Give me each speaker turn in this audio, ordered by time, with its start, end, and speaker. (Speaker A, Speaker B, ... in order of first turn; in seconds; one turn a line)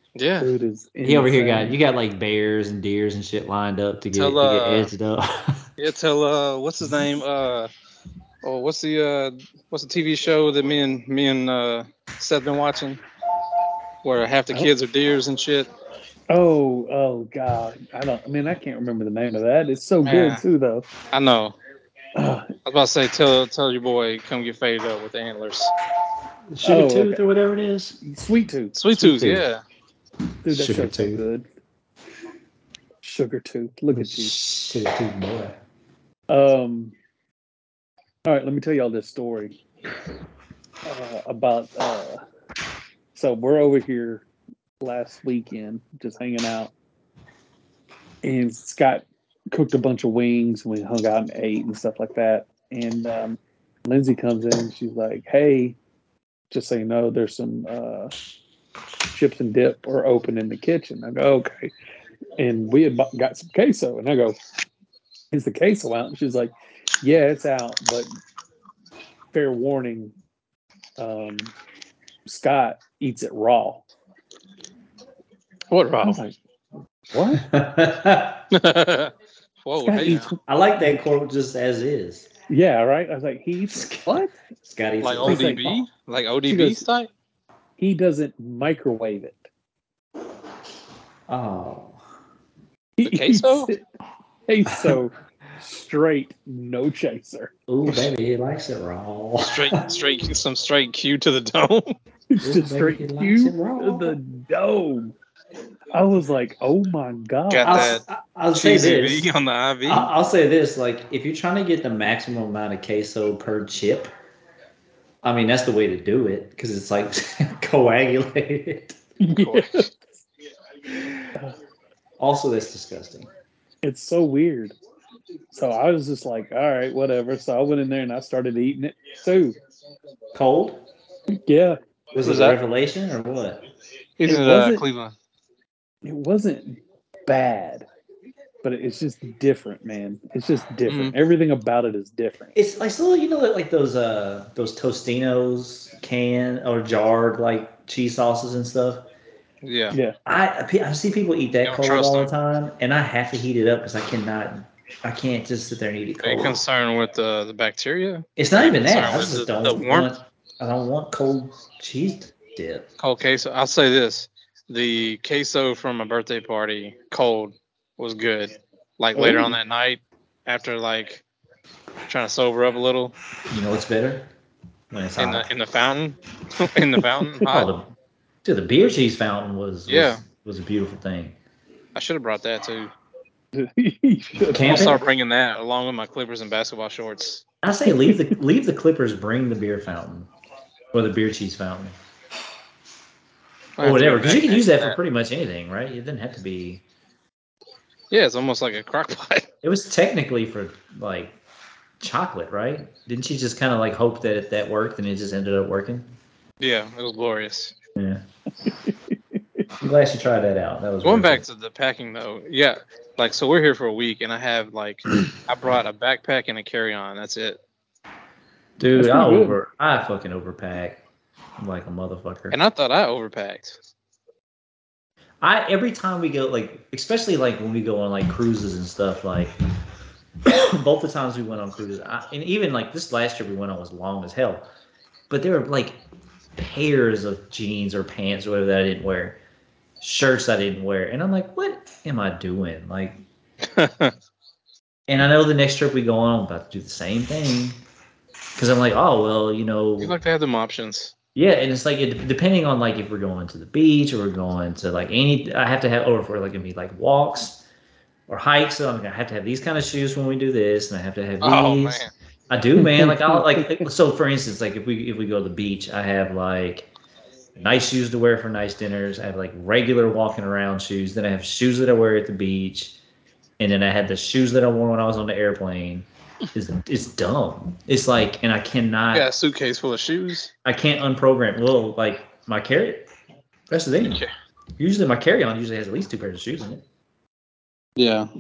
Speaker A: 0.2-0.5
Speaker B: 0.4-1.8
Speaker C: 1.0-5.7
Speaker A: 4.1-4.9
Speaker A: 5.8-7.7
Speaker A: 8.4-13.0
Speaker A: 14.0-15.7
Speaker B: 16.3-20.9
Speaker A: 20.0-20.4
Speaker A: 21.1-21.6
Speaker B: 22.2-22.5
Speaker A: 22.7-25.7
Speaker C: 26.5-28.0
Speaker B: 26.6-27.2
Speaker B: 28.0-28.8
Speaker A: 28.8-29.6
Speaker C: 28.9-29.5
Speaker B: 30.4-31.5
Speaker C: 30.5-31.2
Speaker B: 33.0-34.3
Speaker C: 33.9-35.6
Speaker B: 36.3-37.0
Speaker B: 38.2-39.6
Speaker B: 40.8-42.2
Speaker B: 43.1-44.3
Speaker B: 44.8-46.7
Speaker B: 48.2-55.8
Speaker B: 56.5-58.1
Speaker B: 59.1-61.7
Speaker B: 62.4-64.4
Speaker B: 65.3-68.1
Speaker B: 69.3-70.2
Speaker B: 71.0-71.5
Speaker B: 72.3-73.8
Speaker A: 75.7-76.2
Speaker B: 76.0-76.4
Speaker B: 77.1-77.5
Speaker C: 77.3-78.4
Speaker A: 78.5-80.3
Speaker B: 79.8-81.0
Speaker C: 80.5-82.3
Speaker B: 82.5-84.4
Speaker C: 83.7-85.6
Speaker A: 85.0-87.1
Speaker B: 85.2-85.8
Speaker B: 86.5-86.8
Speaker B: 87.8-89.5
Speaker C: 91.3-92.0
Speaker B: 93.0-93.8
Speaker A: 93.0-93.7
Speaker B: 94.5-98.0
Speaker C: 94.7-95.0
Speaker C: 97.7-99.8
Speaker A: 99.4-101.9
Speaker B: 102.3-105.2
Speaker C: 102.4-104.2
Speaker B: 105.9-108.0
Speaker A: 107.5-108.0
Speaker C: 107.6-109.3
Speaker A: 108.5-110.1
Speaker C: 109.8-114.1
Speaker C: 115.2-119.0
Speaker B: 119.2-120.0
Speaker A: 119.3-119.9
Speaker C: 122.2-123.3
Speaker B: 123.8-124.8
Speaker B: 125.5-129.6
Speaker C: 130.3-130.8
Speaker B: 131.4-131.8
Speaker C: 132.1-133.6
Speaker A: 132.2-132.6
Speaker A: 134.2-135.2
Speaker B: 134.2-134.8
Speaker B: 136.1-137.9
Speaker B: 138.6-142.6
Speaker A: 140.9-141.2
Speaker C: 142.6-149.1
Speaker A: 149.6-150.0
Speaker B: 149.9-150.2
Speaker C: 150.2-156.6
Speaker A: 151.7-152.3
Speaker A: 156.2-160.1
Speaker C: 158.4-162.9
Speaker A: 163.0-171.2
Speaker B: 169.2-169.6
Speaker A: 172.1-173.2
Speaker C: 173.5-174.3
Speaker C: 174.9-175.5
Speaker A: 175.2-177.7
Speaker C: 177.4-181.4
Speaker A: 179.9-180.2
Speaker A: 181.9-182.9
Speaker B: 183.5-185.0
Speaker C: 184.5-185.0
Speaker A: 184.6-187.4
Speaker C: 187.6-190.3
Speaker B: 187.9-188.4
Speaker C: 190.9-191.9
Speaker A: 193.8-195.0
Speaker C: 193.8-196.8
Speaker A: 198.1-199.5
Speaker C: 199.6-201.4
Speaker C: 202.0-206.1
Speaker A: 206.6-207.7
Speaker C: 208.0-208.2
Speaker B: 208.6-209.4
Speaker C: 209.8-211.4
Speaker A: 211.0-217.6
Speaker C: 218.8-221.0
Speaker B: 218.9-219.6
Speaker C: 221.6-222.6
Speaker A: 222.5-223.8
Speaker C: 225.4-229.6
Speaker C: 230.4-234.7
Speaker C: 235.3-236.0
Speaker C: 236.6-239.4
Speaker C: 240.0-243.2
Speaker A: 243.6-244.2
Speaker C: 245.1-247.8
Speaker C: 248.6-250.2
Speaker A: 250.0-251.1
Speaker C: 251.3-257.7
Speaker C: 258.3-266.9
Speaker A: 261.4-262.1
Speaker B: 262.8-263.9
Speaker C: 267.6-273.0
Speaker C: 273.6-279.3
Speaker A: 279.1-280.5
Speaker C: 280.6-283.1
Speaker C: 283.7-284.2
Speaker A: 284.0-284.3
Speaker C: 284.8-286.8
Speaker A: 288.0-288.3